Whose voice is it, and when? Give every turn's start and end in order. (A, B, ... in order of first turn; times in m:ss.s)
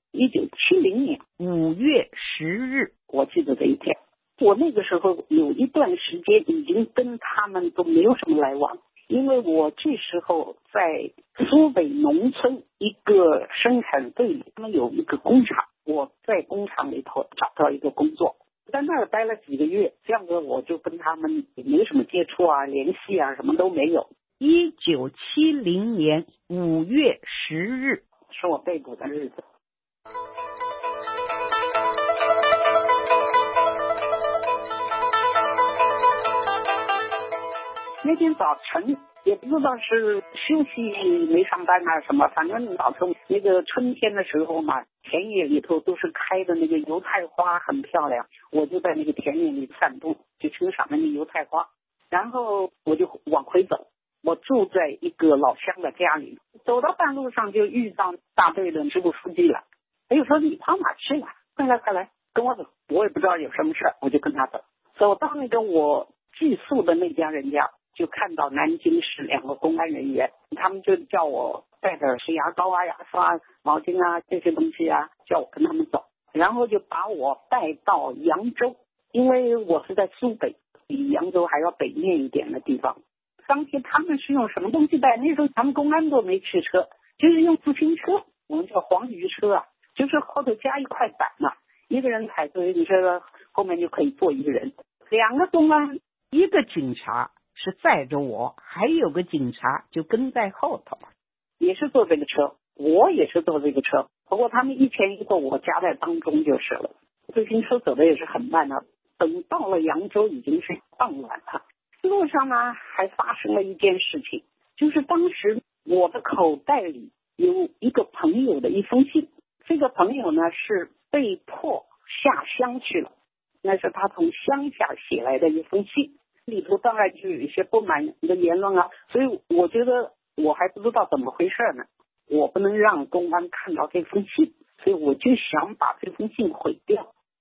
0:00.1-0:01.2 A
0:01.4-0:02.9 B
0:03.1-0:24.1 A
0:24.4-0:28.0 B
0:28.3-0:29.4 A
0:38.0-1:36.0 A
1:36.3-1:41.1 B
1:41.6-2:17.1 A